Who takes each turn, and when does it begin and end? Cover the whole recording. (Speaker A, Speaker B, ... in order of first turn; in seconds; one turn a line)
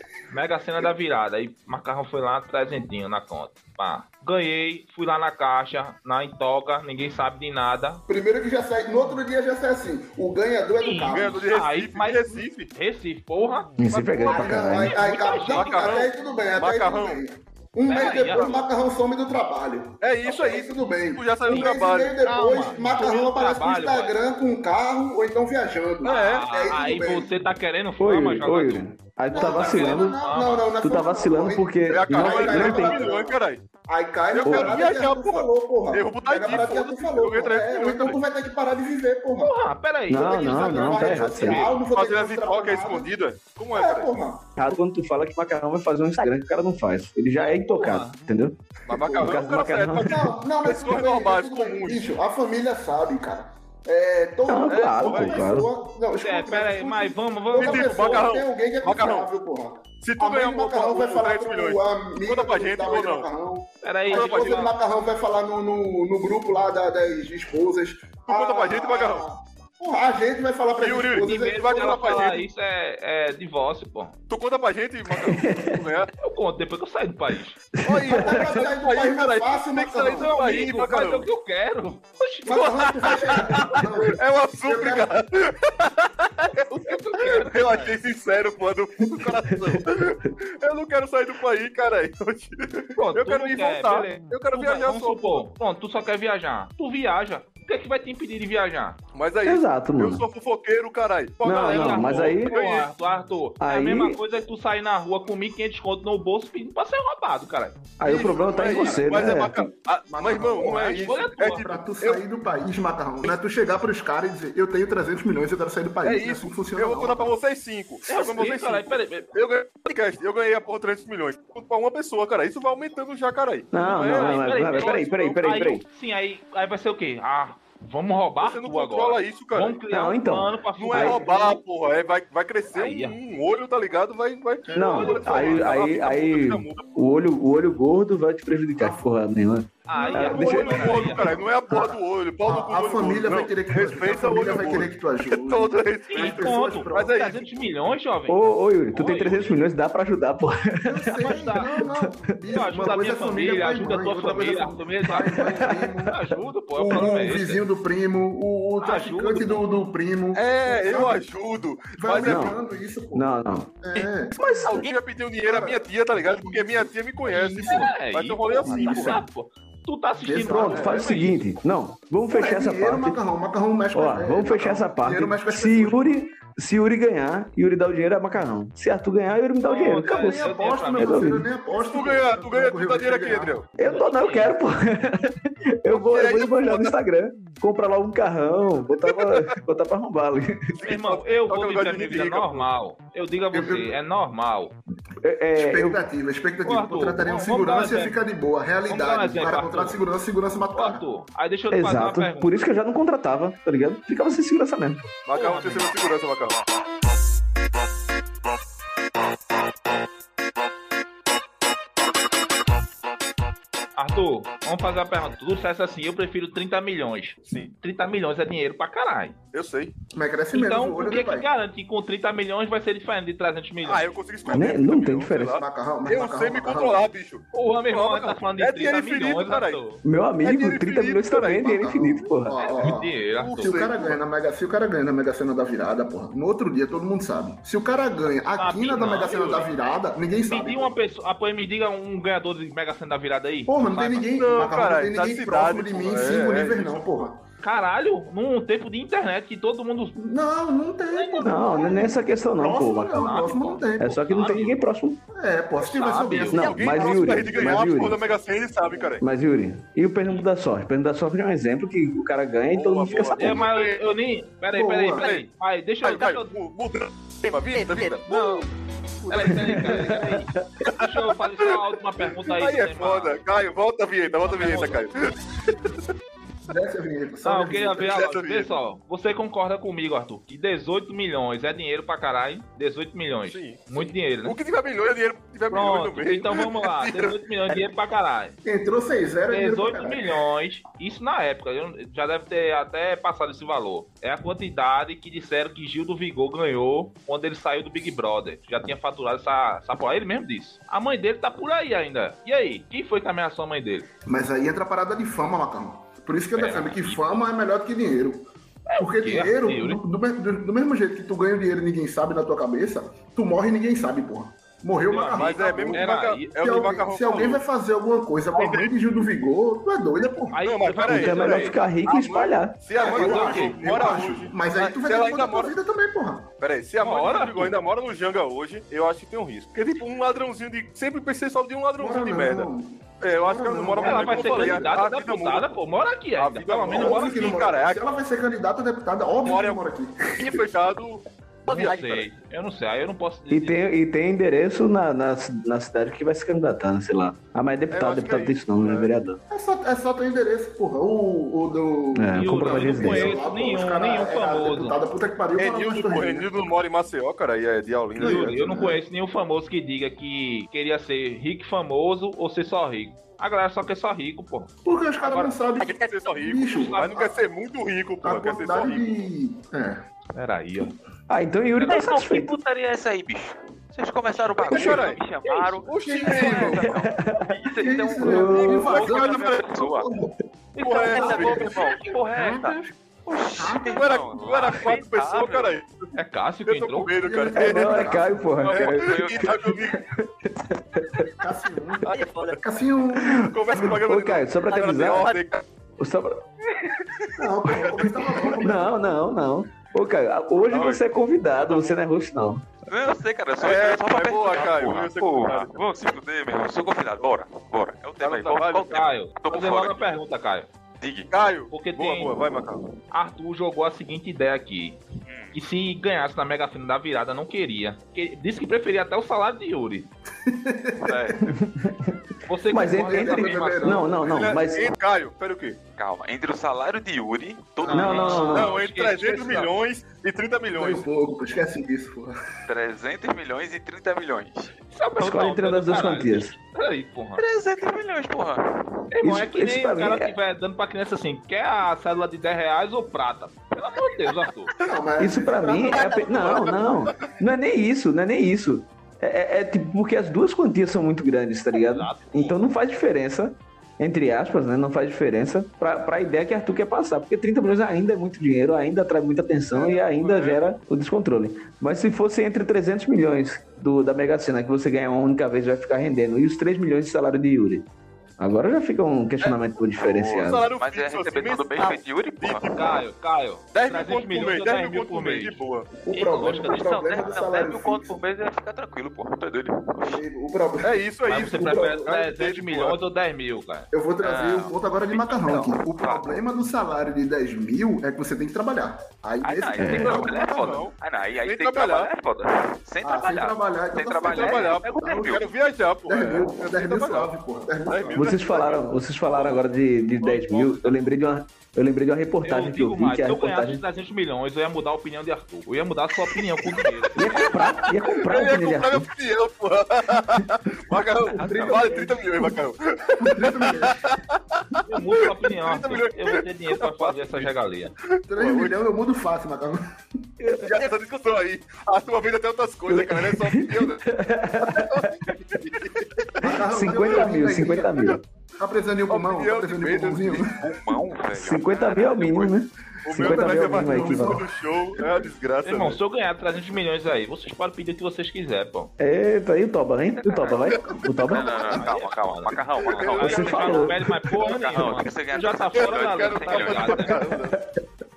Speaker A: 0.3-8.0
Speaker B: 8.1-11.4
Speaker A: 10.8-15.9
Speaker C: 11.1-12.7
Speaker D: 13.8-15.0
Speaker B: 14.3-27.3
Speaker C: 15.2-17.2
Speaker A: 17.9-18.6
Speaker C: 18.0-18.6
Speaker C: 20.0-22.2
Speaker A: 21.5-24.2
Speaker C: 26.0-26.5
Speaker A: 26.0-30.7
Speaker D: 28.0-30.2
Speaker B: 29.3-39.5
Speaker D: 30.8-33.0
Speaker C: 31.9-33.6
Speaker C: 34.3-38.2
Speaker D: 34.4-34.7
Speaker A: 39.4-41.8
Speaker D: 40.1-41.7
Speaker B: 40.2-43.1
Speaker C: 41.9-44.1
Speaker B: 43.7-44.6
Speaker D: 44.6-48.6
Speaker A: 47.4-48.2
Speaker B: 48.9-49.4
Speaker C: 48.9-52.2
Speaker D: 49.2-50.2
Speaker B: 50.0-71.7
Speaker D: 54.5-55.7
Speaker C: 54.7-55.6
Speaker A: 56.2-58.3
Speaker C: 57.5-59.3
Speaker C: 60.0-63.3
Speaker A: 63.8-64.7
Speaker C: 64.1-64.7
Speaker C: 68.3-69.2
Speaker C: 70.8-72.4
Speaker A: 71.2-74.2
Speaker C: 74.3-76.1
Speaker D: 75.1-75.8
Speaker A: 76.2-77.6
Speaker D: 77.8-78.5
Speaker C: 77.8-81.3
Speaker B: 78.0-80.3
Speaker A: 80.1-83.4
Speaker B: 82.5-85.1
Speaker C: 82.6-95.5
Speaker A: 86.7-88.0
Speaker D: 89.6-90.1
Speaker A: 93.0-99.0
Speaker C: 99.1-102.9
Speaker D: 99.5-100.2
Speaker D: 101.4-102.6
Speaker A: 101.5-107.8
Speaker D: 103.6-104.2
Speaker D: 108.0-109.7
Speaker C: 108.0-112.2
Speaker B: 110.1-117.3
Speaker A: 110.6-111.7
Speaker C: 116.0-125.4
Speaker A: 118.1-119.3
Speaker D: 123.7-125.8
Speaker A: 123.8-131.6
Speaker C: 128.4-129.8
Speaker D: 129.9-131.2
Speaker C: 130.8-137.0
Speaker A: 132.8-133.2
Speaker B: 134.7-135.3
Speaker D: 134.7-141.0
Speaker A: 134.9-135.7
Speaker B: 138.8-139.1
Speaker A: 139.9-141.3
Speaker B: 140.0-147.2
Speaker C: 140.1-147.7
Speaker A: 146.1-149.6
Speaker D: 148.3-152.2
Speaker B: 150.8-161.2
Speaker A: 151.2-151.7
Speaker A: 152.5-157.6
Speaker D: 155.2-156.2
Speaker A: 158.8-159.6
Speaker C: 160.3-162.6
Speaker B: 162.0-163.3
Speaker D: 162.2-162.6
Speaker D: 163.1-163.7
Speaker B: 163.8-164.8
Speaker D: 164.3-164.9
Speaker C: 164.7-169.2
Speaker B: 165.4-165.8
Speaker A: 167.3-171.4
Speaker B: 167.6-167.9
Speaker B: 168.6-169.2
Speaker D: 168.9-169.2
Speaker B: 170.2-171.2
Speaker D: 170.5-173.2
Speaker B: 172.3-176.1
Speaker D: 173.9-181.5
Speaker A: 179.6-181.4
Speaker B: 180.0-183.6
Speaker C: 181.8-183.7
Speaker D: 183.8-190.7
Speaker A: 183.8-184.6
Speaker C: 185.9-186.9
Speaker C: 189.1-189.5
Speaker C: 190.8-192.7
Speaker A: 190.8-194.8
Speaker B: 193.5-194.0
Speaker D: 195.2-196.0
Speaker B: 195.6-201.0
Speaker A: 196.6-198.2
Speaker A: 198.9-200.0
Speaker A: 200.7-202.6
Speaker D: 201.7-205.1
Speaker C: 205.3-206.6
Speaker A: 205.3-205.9
Speaker A: 214.0-219.4
Speaker C: 219.5-219.9
Speaker B: 220.1-221.5
Speaker A: 220.5-224.1
Speaker C: 223.8-229.8
Speaker B: 224.5-224.7
Speaker D: 224.5-225.6
Speaker B: 225.4-227.1
Speaker A: 227.5-230.0
Speaker D: 230.0-232.6
Speaker C: 230.4-231.7
Speaker B: 231.6-240.9
Speaker A: 232.6-233.8
Speaker C: 233.3-234.2
Speaker A: 238.6-239.7
Speaker A: 240.5-244.3
Speaker B: 243.7-247.4
Speaker C: 244.3-247.3
Speaker A: 247.6-250.2
Speaker B: 250.2-254.5
Speaker A: 251.1-252.0
Speaker D: 251.4-253.3
Speaker A: 253.1-254.8
Speaker D: 254.0-255.2
Speaker B: 255.3-258.3
Speaker A: 255.8-256.7
Speaker D: 256.5-258.2
Speaker C: 256.5-259.2
Speaker D: 259.2-263.7
Speaker C: 262.7-264.0
Speaker A: 263.3-266.5
Speaker B: 264.8-265.3
Speaker C: 265.2-265.4
Speaker C: 266.0-268.6
Speaker A: 268.0-268.7
Speaker A: 269.2-273.4
Speaker C: 269.3-270.0
Speaker D: 269.5-270.7
Speaker C: 270.9-276.0
Speaker A: 274.4-275.0
Speaker B: 276.7-278.1
Speaker A: 277.4-284.6
Speaker C: 278.1-278.7
Speaker C: 283.5-287.4
Speaker A: 285.7-288.6
Speaker B: 288.6-290.4
Speaker A: 289.5-304.1
Speaker B: 304.3-320.6
Speaker A: 306.5-307.5
Speaker A: 308.9-310.0
Speaker A: 315.1-316.5
Speaker C: 315.4-317.6
Speaker C: 318.5-319.3
Speaker A: 320.5-322.4
Speaker C: 320.6-325.8
Speaker D: 321.1-322.8
Speaker B: 323.0-326.5
Speaker A: 323.0-323.8
Speaker C: 326.6-332.7
Speaker A: 327.0-327.8
Speaker B: 332.0-334.9
Speaker C: 333.2-335.8
Speaker A: 334.0-337.5
Speaker C: 336.4-338.2
Speaker B: 336.9-340.6
Speaker C: 339.4-339.8
Speaker C: 340.4-341.2
Speaker A: 341.7-343.8
Speaker D: 343.5-349.4
Speaker C: 347.9-349.1
Speaker B: 349.5-356.5
Speaker D: 352.1-353.4
Speaker A: 352.4-355.0
Speaker C: 355.6-358.6
Speaker B: 358.2-359.0
Speaker A: 358.2-365.6
Speaker B: 364.9-367.4
Speaker C: 365.8-369.3
Speaker A: 366.6-367.3
Speaker B: 368.2-370.1
Speaker A: 370.3-370.9
Speaker D: 371.3-372.5
Speaker E: 371.8-380.1
Speaker C: 374.6-375.2
Speaker B: 374.7-375.1
Speaker A: 375.5-375.7
Speaker C: 375.9-376.9
Speaker B: 375.9-377.0
Speaker D: 376.9-378.9
Speaker B: 377.7-380.4
Speaker C: 378.3-379.9
Speaker A: 380.8-382.2
Speaker E: 380.8-385.7
Speaker C: 380.8-381.9
Speaker B: 381.2-382.9
Speaker B: 383.6-384.1
Speaker C: 383.8-390.0
Speaker A: 386.1-387.1
Speaker B: 387.2-388.9
Speaker D: 387.6-391.3
Speaker E: 388.9-389.9
Speaker B: 391.3-393.4
Speaker C: 392.0-392.6
Speaker D: 393.2-395.4
Speaker C: 393.2-395.6
Speaker D: 396.0-396.5
Speaker C: 396.9-398.6
Speaker B: 397.4-399.1
Speaker D: 398.6-402.7
Speaker C: 400.7-401.0
Speaker E: 402.9-410.2
Speaker C: 403.6-405.8
Speaker C: 408.2-409.1
Speaker A: 408.9-410.7
Speaker E: 411.0-411.3
Speaker C: 411.3-412.9
Speaker A: 411.7-412.4
Speaker A: 413.1-415.0
Speaker E: 415.2-415.6
Speaker A: 415.5-420.1
Speaker B: 420.4-421.4
Speaker E: 421.0-421.4
Speaker D: 421.4-424.9
Speaker A: 422.5-424.0
Speaker B: 422.7-424.5
Speaker C: 424.2-425.8
Speaker E: 426.0-428.6
Speaker A: 427.8-429.7
Speaker D: 427.9-428.7
Speaker C: 428.4-431.1
Speaker B: 430.8-432.3
Speaker E: 432.7-434.8
Speaker A: 434.9-437.4
Speaker D: 435.2-436.5
Speaker E: 437.4-439.0
Speaker A: 439.1-444.7
Speaker D: 439.2-440.4
Speaker B: 444.8-447.1
Speaker D: 445.2-467.9
Speaker C: 445.9-447.3
Speaker A: 451.7-452.6
Speaker A: 460.1-460.6
Speaker D: 468.4-470.7
Speaker E: 470.0-472.7
Speaker C: 470.3-473.0
Speaker A: 472.8-475.6
Speaker C: 473.7-475.9
Speaker B: 476.0-478.2
Speaker A: 476.1-477.3
Speaker E: 476.5-480.2
Speaker B: 480.1-481.9
Speaker C: 480.8-483.0
Speaker A: 481.3-483.9
Speaker B: 483.9-490.8
Speaker E: 484.2-486.3
Speaker E: 489.4-495.4
Speaker D: 489.8-490.3
Speaker C: 489.9-492.1
Speaker B: 493.0-495.4
Speaker C: 494.2-497.3
Speaker B: 496.1-498.4
Speaker C: 497.9-499.7
Speaker D: 498.1-503.8
Speaker C: 500.2-500.9
Speaker A: 502.4-507.8
Speaker D: 507.2-509.1
Speaker C: 507.4-517.5
Speaker E: 511.3-511.9
Speaker B: 511.4-512.6
Speaker B: 513.2-514.1
Speaker A: 514.9-517.9
Speaker C: 518.1-518.8
Speaker B: 518.3-519.8
Speaker D: 520.4-520.9
Speaker C: 520.6-527.3
Speaker D: 522.9-525.4
Speaker B: 526.4-530.5
Speaker D: 526.4-528.2
Speaker C: 529.1-530.6
Speaker E: 530.6-532.5
Speaker D: 531.3-534.4
Speaker C: 533.0-536.0
Speaker B: 533.1-534.5
Speaker A: 535.6-538.9
Speaker D: 539.0-541.7
Speaker E: 540.1-547.2
Speaker B: 540.8-541.4
Speaker A: 541.7-547.2
Speaker D: 543.2-544.1
Speaker C: 545.8-547.6
Speaker D: 547.2-547.8